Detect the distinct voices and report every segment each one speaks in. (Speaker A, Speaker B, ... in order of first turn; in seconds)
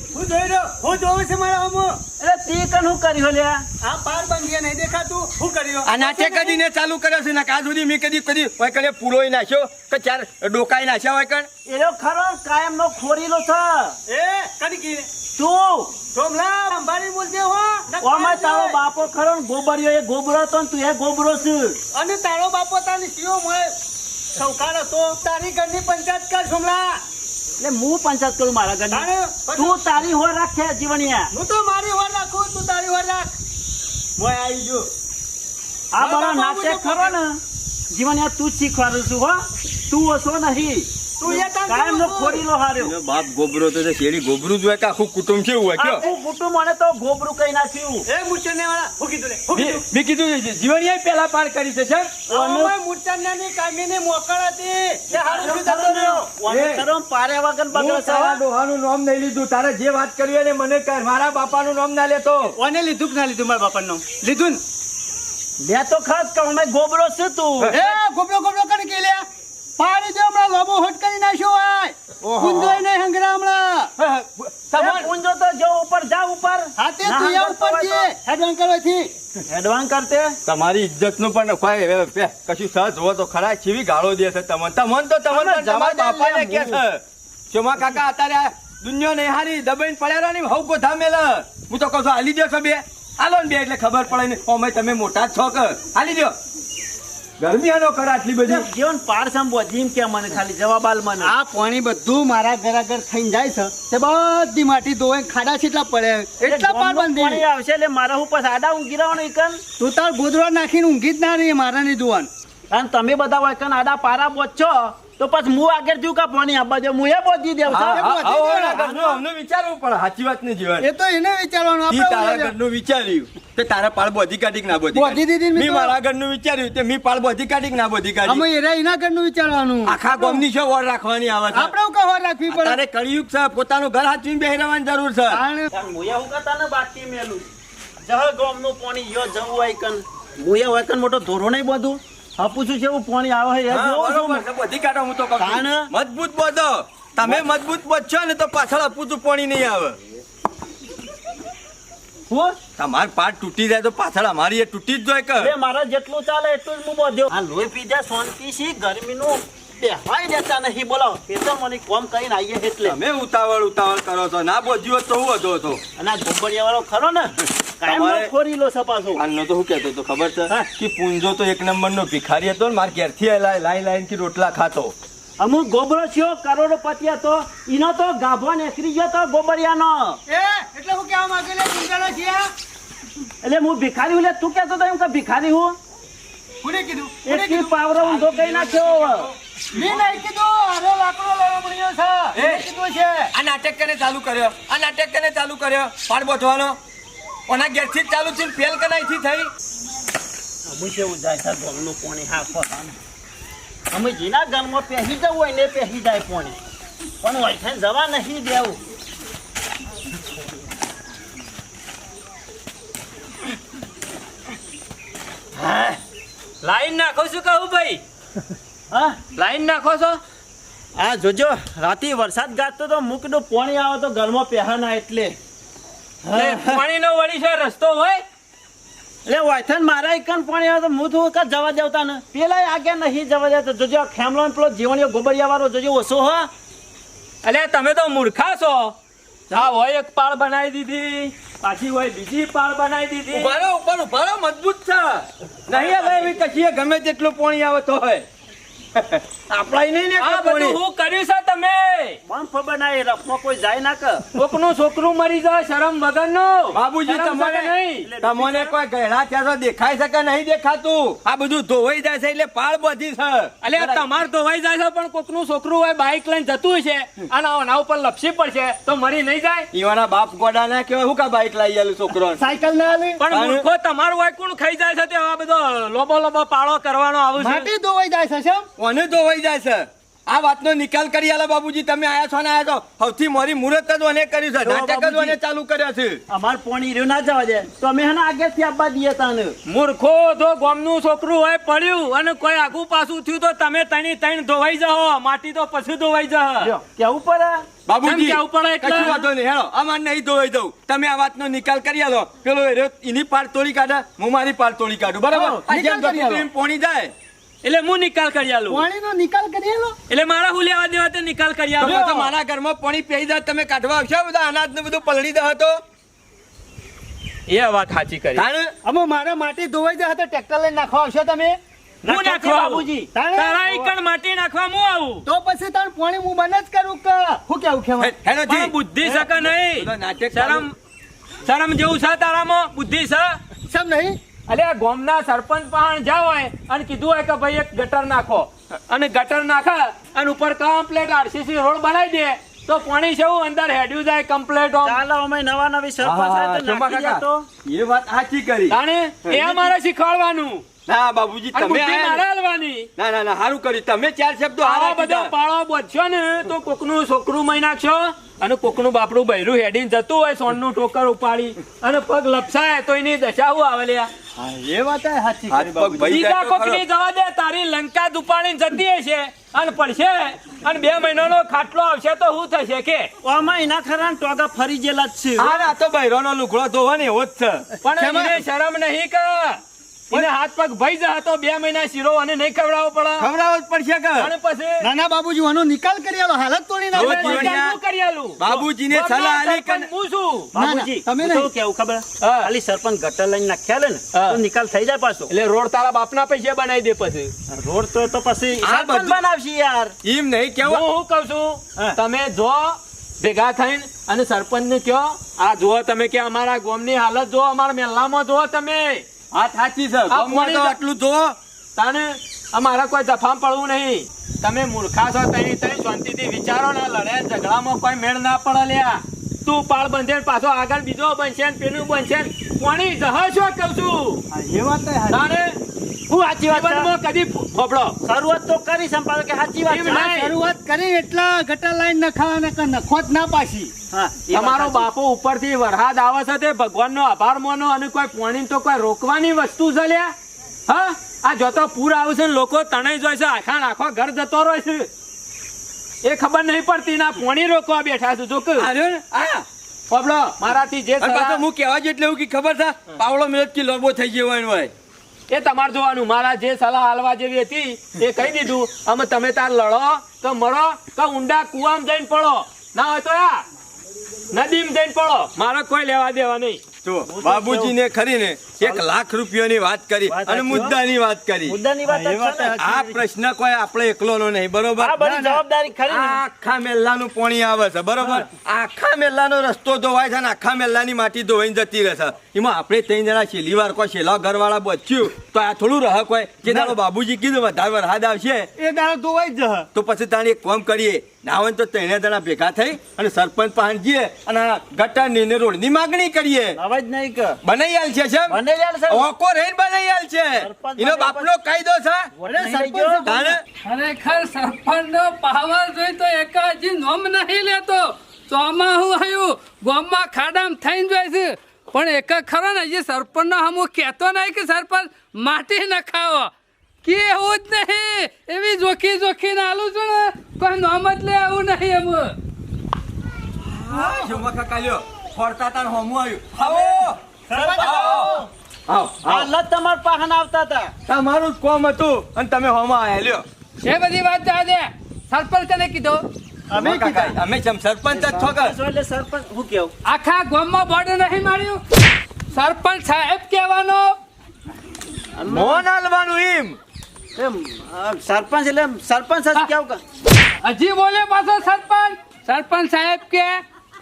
Speaker A: 0.1-2.0, 3.8-6.6, 14.1-15.1, 16.1-18.8, 21.9-23.8, 24.4-27.0, 28.9-29.8, 31.3-33.3, 34.2-34.9, 36.0-37.1, 41.2-42.5, 48.1-49.9, 52.3-56.3, 62.6-64.6, 67.7-69.3, 69.8-73.9, 76.8-79.1, 85.4-86.7, 101.2-107.4, 109.8-112.3, 117.7-119.2, 120.8-122.5, 124.9-125.9, 128.3-130.4, 131.5-132.8, 135.3-135.7, 180.3-182.5, 186.6-187.8, 189.7-193.3, 272.4-273.2, 277.4-278.7, 305.3-306.5, 308.7-310.0, 318.8-321.6, 323.1-323.9, 325.3-328.1, 333.7-334.2, 364.4-366.1, 378.0-378.4, 384.8-387.6, 390.6-391.5, 424.3-425.3, 429.9-433.7, 471.9-473.0, 475.0-475.4, 486.5-486.7, 488.6-489.7, 502.2-503.4, 527.3-528.3, 536.5-537.1
Speaker B: 2.2-3.7, 11.7-14.0, 15.4-16.0, 18.0-21.8, 27.6-31.3, 35.9-43.0, 45.8-48.1, 52.3-52.7, 55.1-58.4, 65.6-67.9, 72.2-72.8, 74.8-78.1, 79.5-80.4, 98.5-101.3, 106.5-109.6, 112.7-118.1, 135.7-137.5, 138.0-144.4, 145.4-145.9, 152.3-152.6, 155.4-163.0, 166.0-169.2, 175.4-180.2, 183.4-185.8, 187.2-189.3, 200.7-203.0, 203.9-206.6, 207.2-208.8, 215.6-216.0, 218.9-219.2, 221.0-225.4, 226.2-226.8, 229.3-236.5, 252.3-254.4, 258.0-258.7, 284.6-285.4, 286.3-289.6, 296.6-297.7, 322.0-323.1, 344.8-347.5, 373.2-375.6, 390.5-395.3, 397.5-399.9, 426.1-426.9, 428.0-430.3, 433.9-434.9, 467.1-467.8, 470.1-470.8, 471.5-472.6, 474.8-476.2, 496.6-497.4, 498.3-499.1, 500.4-501.3, 502.2-503.1, 527.3-528.3, 529.0-530.7, 537.9-539.7, 545.2-545.6, 547.2-549.8
Speaker C: 5.9-11.5, 42.8-46.1, 49.5-52.2, 56.5-56.9, 57.7-62.6, 74.0-75.1, 80.5-96.3, 97.4-98.7, 117.7-120.9, 121.9-128.4, 129.8-131.8, 132.5-135.4, 143.7-150.0, 152.8-155.5, 162.8-165.8, 167.8-168.3, 169.2-174.9, 189.8-190.1, 192.3-192.7, 193.3-196.8, 197.5-199.5, 243.3-248.3, 248.9-250.8, 256.7-264.1, 269.7-272.4, 273.3-273.7, 278.8-286.2, 297.9-307.1, 311.8-315.8, 318.4-318.7, 328.0-328.7, 329.7-330.7, 346.0-349.7, 350.9-352.2, 353.0-355.3, 365.5-366.8, 375.4-377.7, 383.2-384.3, 386.9-387.8, 388.4-389.9, 398.6-399.2, 400.0-400.9, 409.3-411.4, 448.6-449.5, 451.0-454.7, 466.8-471.6, 472.6-475.0, 475.9-488.5, 489.7-496.6, 497.4-498.4, 498.9-502.1, 503.1-503.4, 523.4-529.3, 530.9-533.2, 536.5-538.5, 545.3-546.6
Speaker D: 188.1-189.3, 216.6-218.0, 219.3-220.2, 226.3-228.2, 237.4-238.9, 239.5-243.5, 250.2-252.2, 254.3-258.1, 263.6-269.7, 273.2-277.7, 289.7-296.7, 298.0-299.2, 307.6-308.9, 310.1-312.3, 317.5-318.4, 322.1-325.2, 328.4-330.8, 331.4-333.4, 334.5-345.0, 348.7-350.6, 351.5-352.9, 354.6-364.1, 366.1-373.1, 377.8-383.3, 384.2-384.9, 386.9-390.5, 392.2-392.5, 394.1-394.4, 395.3-397.3, 400.6-409.1, 410.1-410.8, 411.8-424.2, 425.1-425.6, 426.4-428.0, 429.7-430.3, 434.3-440.1, 440.7-444.9, 446.0-448.7, 449.9-451.4, 455.3-463.4, 464.3-466.6
Speaker E: 503.6-516.3, 516.8-522.1, 533.6-536.0, 539.9-541.6, 542.3-544.0, 550.4-553.4